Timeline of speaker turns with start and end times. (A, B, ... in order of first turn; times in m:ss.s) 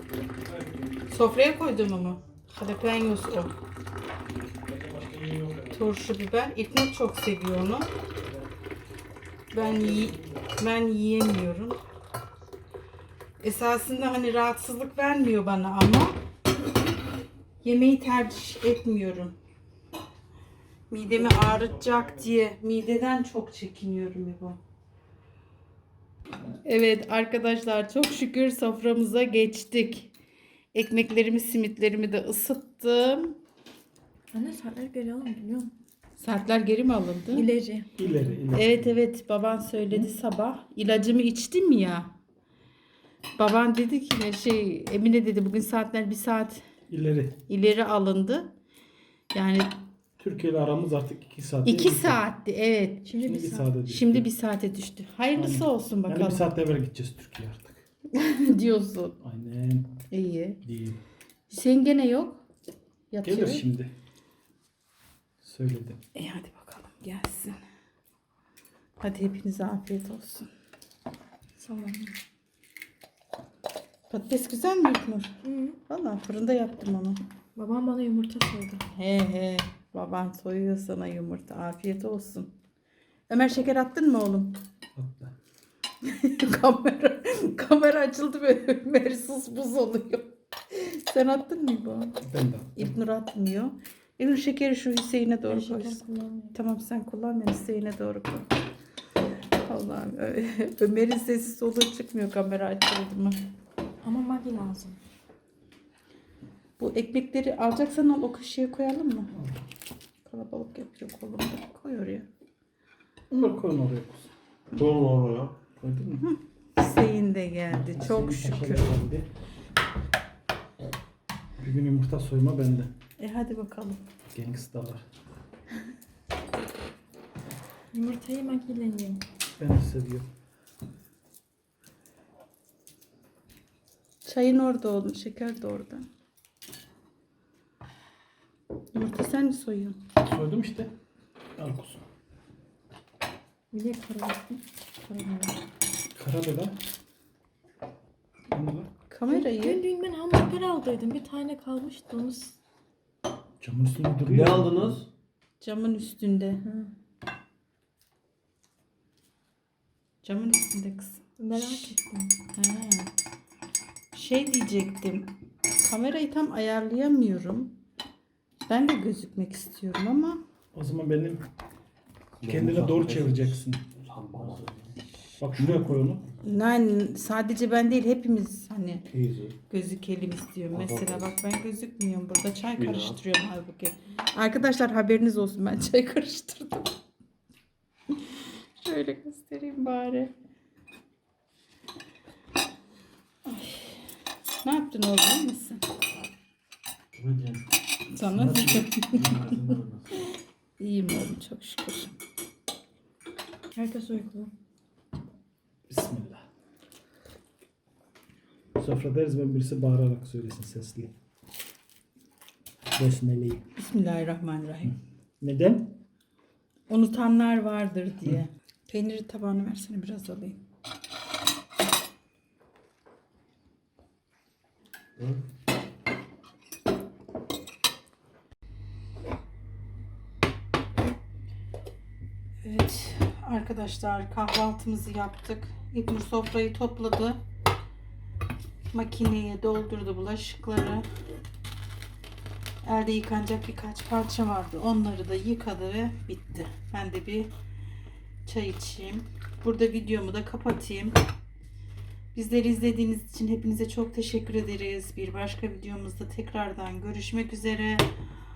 0:00.4-0:01.0 A
0:01.1-0:03.6 B
0:04.6-0:05.9 A
0:05.7-0:07.9 B
0:09.5-0:11.8 B
0:09.6-0:10.4 A
0:13.4-0:16.2 B
0:17.6-0:19.4 B
0:20.9-0:24.6 B
0:21.1-0:22.2 A
0:26.6-0:30.1 B
0:30.7-0:33.4 B
0:34.3-0:35.7 C
0:36.2-0:37.5 B
0:37.3-0:37.9 C
0:38.0-0:39.0 A
0:38.5-0:42.1 B
0:43.4-0:46.7 B
0:46.9-0:47.4 A
0:47.5-0:48.5 B
0:49.3-0:49.8 B
0:50.2-0:52.2 A
0:51.6-0:53.1 B
0:53.0-0:53.7 C
0:53.2-0:54.3 A
0:53.9-0:56.5 B
0:55.3-0:57.8 A
0:58.1-0:59.2 B
0:59.2-1:00.0 A
1:00.1-1:00.6 B
1:00.6-1:01.0 A
1:01.5-1:02.4 B
1:03.1-1:03.6 B
1:03.2-1:03.9 A
1:05.4-1:06.0 A
1:06.1-1:07.6 B
1:09.0-1:10.5 B
1:11.6-1:12.2 C
1:14.1-1:17.2 B
1:15.4-1:15.8 C
1:17.6-1:18.8 C
1:18.9-1:22.6 B
1:23.3-1:24.6 B
1:24.9-1:25.3 A
1:26.0-1:32.2 B
1:32.2-1:33.0 A
1:32.8-1:36.0 B
1:35.5-1:36.6 C
1:36.5-1:38.5 B
1:39.6-1:43.4 B
1:44.0-1:45.0 C
1:46.8-1:49.3 B
1:50.2-1:52.3 B
1:53.3-1:54.3 A
1:54.7-1:55.6 D
1:55.8-1:56.3 A
1:56.2-1:58.9 B
1:57.7-1:59.3 A
2:01.6-2:02.9 A
2:03.2-2:04.0 B
2:04.3-2:05.1 A
2:07.9-2:09.2 C
2:09.6-2:10.3 A
2:14.2-2:16.1 B
2:18.9-2:20.0 B
2:20.2-2:20.9 A
2:21.6-2:22.1 A
2:23.7-2:25.6 C
2:26.1-2:26.8 A
2:28.5-2:28.9 A
2:29.1-2:29.8 B
2:29.3-2:32.6 C
2:33.6-2:35.0 A
2:34.3-2:35.1 D
2:35.6-2:36.6 B
2:36.6-2:36.9 C
2:40.2-2:42.0 B
2:41.4-2:42.4 C
2:42.5-2:43.1 B
2:44.1-2:47.8 B
2:48.6-2:50.4 B
2:50.7-2:51.5 A
2:52.4-2:54.8 D
2:52.4-2:53.9 A
2:55.4-2:56.2 A
2:55.6-2:55.8 D
2:56.4-2:59.1 B
2:59.1-2:59.6 D
2:59.7-3:06.9 B
3:00.7-3:01.3 D
3:02.8-3:03.2 D
3:08.8-3:10.3 B
3:13.4-3:14.0 B
3:14.6-3:15.9 B
3:17.1-3:17.7 D
3:18.1-3:19.8 B
3:18.3-3:18.9 A
3:19.0-3:20.2 D
3:20.8-3:22.2 B
3:23.7-3:24.5 C
3:25.9-3:26.4 A
3:28.8-3:31.1 A
3:32.9-3:33.6 A
3:33.8-3:35.0 B
3:35.4-3:36.0 A
3:36.9-3:40.6 B
3:52.6-3:57.4 B
3:58.9-4:01.1 B
4:02.8-4:07.5 B
4:08.4-4:11.2 B
4:12.4-4:18.1 B